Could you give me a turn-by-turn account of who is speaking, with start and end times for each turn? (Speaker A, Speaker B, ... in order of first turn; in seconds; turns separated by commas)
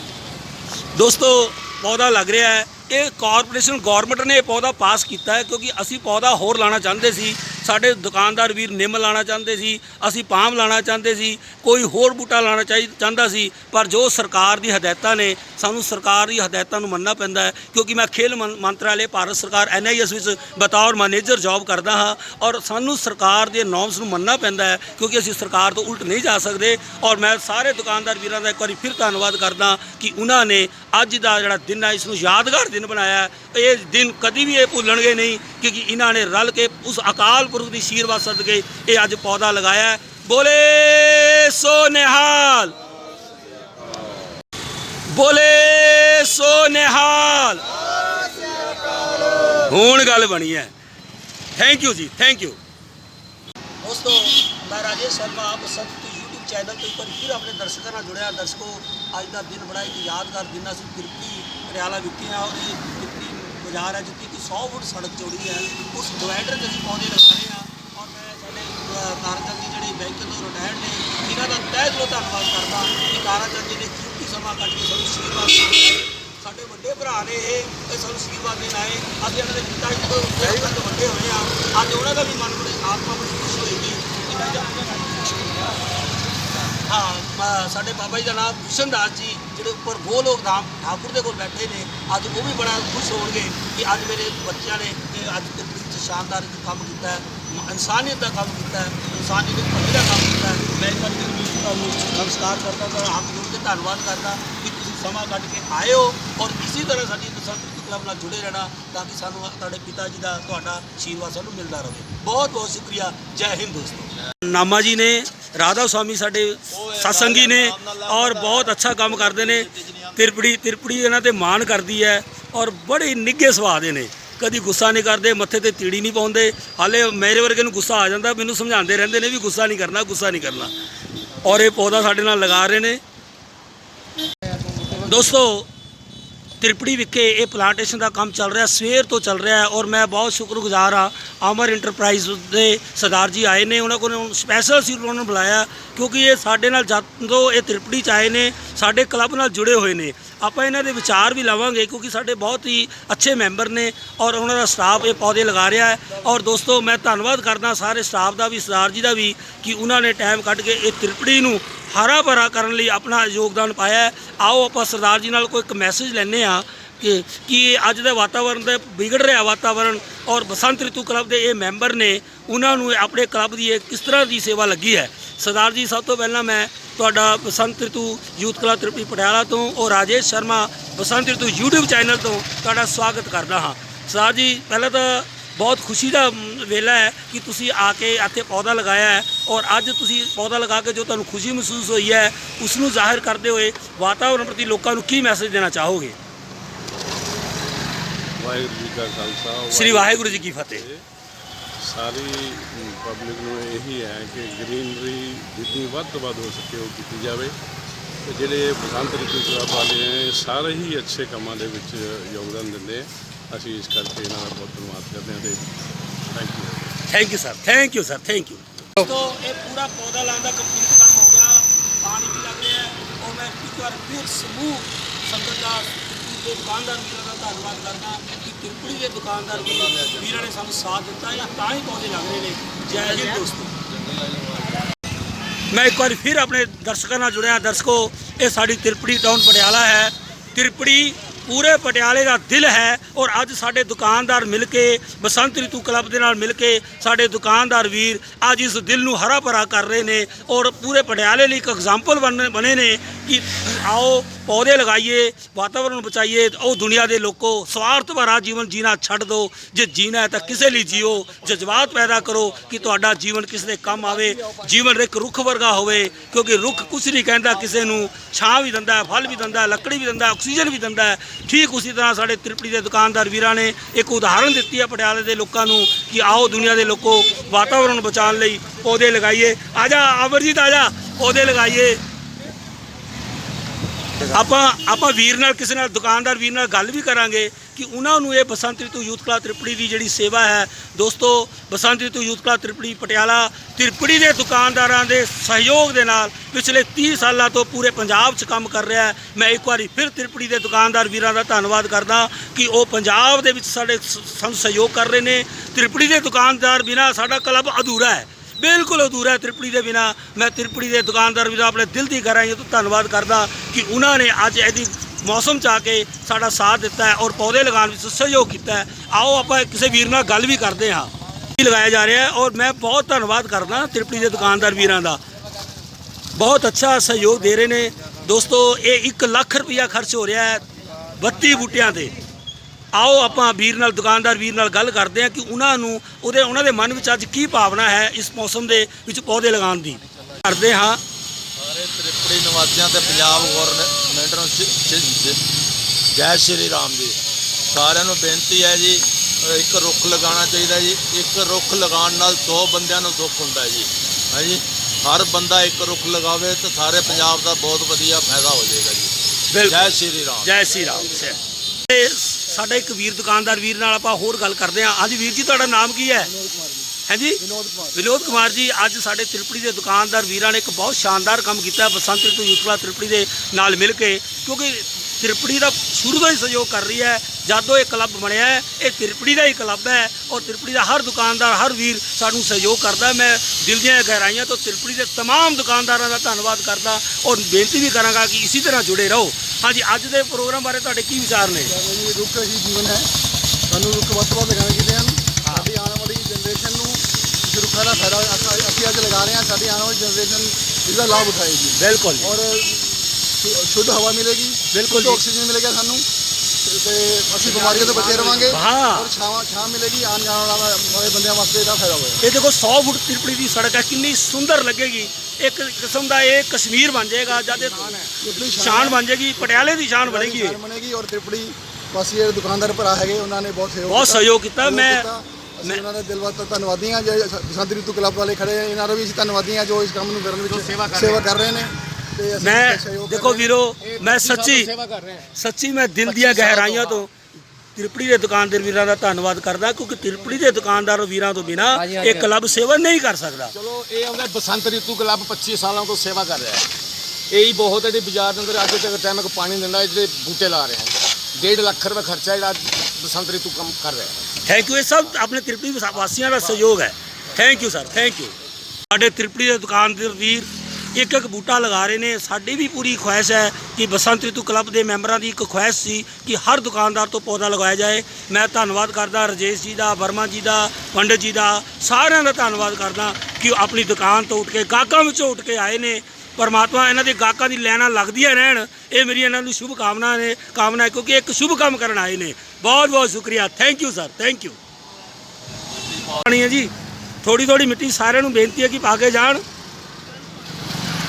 Speaker A: 0.9-42.7, Speaker A: 45.1-47.6, Speaker A: 49.6-50.7, Speaker A: 51.5-52.6, Speaker A: 53.8-85.8, Speaker A: 86.7-130.7, Speaker B: 116.7-120.3, Speaker A: 131.4-133.0, Speaker A: 135.0-135.7, Speaker A: 136.6-196.2, Speaker C: 198.4-201.0, Speaker A: 199.7-200.9, Speaker C: 201.8-207.5, Speaker C: 208.2-215.7, Speaker C: 216.3-216.9, Speaker A: 217.1-233.7, Speaker B: 229.5-230.5, Speaker B: 233.0-234.8, Speaker A: 235.7-282.0, Speaker B: 260.6-262.6, Speaker A: 284.3-325.2, Speaker A: 326.3-332.1, Speaker A: 332.9-341.0, Speaker B: 341.6-345.4, Speaker B: 346.1-347.2, Speaker B: 347.7-359.1, Speaker A: 359.5-361.4, Speaker B: 359.6-360.6, Speaker A: 361.9-366.3, Speaker D: 366.2-368.5, Speaker A: 367.1-367.4, Speaker A: 367.9-391.7, Speaker D: 391.7-393.1, Speaker D: 393.7-406.1, Speaker A: 401.8-402.4, Speaker A: 404.7-405.2, Speaker D: 406.6-412.2, Speaker E: 407.5-408.4, Speaker A: 408.5-409.1, Speaker A: 412.2-420.6, Speaker E: 417.4-418.1, Speaker D: 418.2-433.5, Speaker A: 423.9-425.1, Speaker E: 430.5-431.2, Speaker A: 432.4-434.7, Speaker E: 433.8-435.3, Speaker A: 435.3-437.1, Speaker E: 436.0-437.0, Speaker A: 437.8-443.5, Speaker E: 441.8-442.3, Speaker E: 443.5-446.7, Speaker E: 447.3-454.3, Speaker A: 454.4-458.3, Speaker A: 458.9-484.6, Speaker A: 486.0-486.7, Speaker A: 487.2-489.4